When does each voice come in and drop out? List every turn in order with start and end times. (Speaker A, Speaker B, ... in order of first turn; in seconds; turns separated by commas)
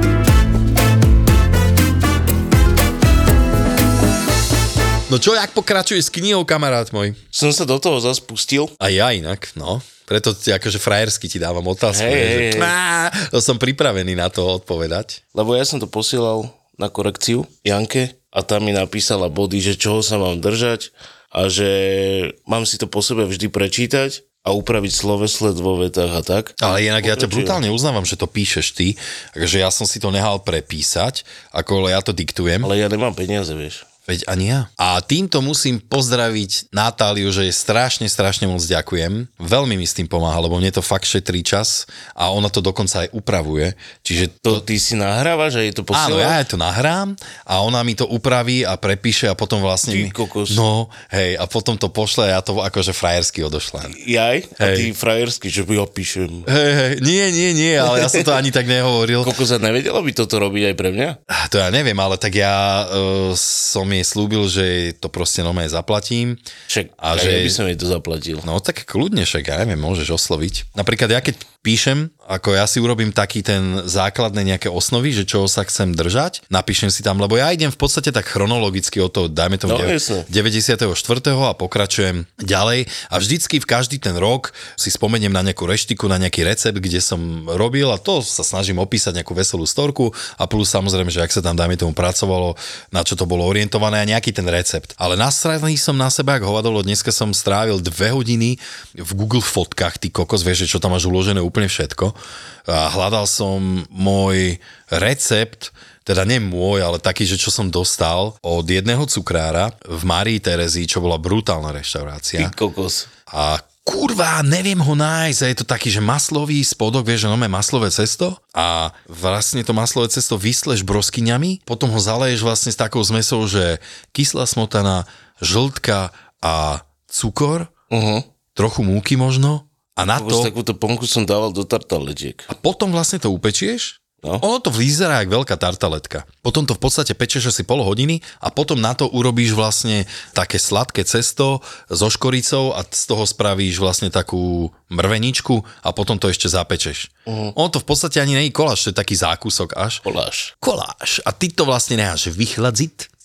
Speaker A: 5.1-7.2, Speaker B: 7.3-8.8, Speaker A: 8.8-15.2, Speaker B: 11.9-12.8, Speaker B: 15.3-27.6, Speaker A: 26.6-32.7, Speaker B: 32.6-33.9, Speaker A: 34.1-44.6, Speaker B: 44.5-46.4, Speaker A: 45.9-54.0, Speaker B: 49.9-50.6, Speaker B: 53.9-56.5, Speaker A: 54.6-54.9, Speaker A: 56.5-59.4, Speaker B: 57.9-58.3, Speaker B: 59.2-61.2, Speaker A: 61.3-66.4, Speaker B: 66.7-68.5, Speaker A: 67.0-67.6, Speaker A: 68.4-112.6, Speaker B: 79.7-80.3, Speaker B: 112.4-113.1, Speaker A: 113.3-127.7, Speaker B: 127.9-128.3, Speaker A: 128.6-130.5, Speaker B: 130.1-132.5, Speaker A: 132.5-150.1, Speaker B: 147.3-147.6, Speaker B: 150.1-150.5, Speaker A: 150.6-153.1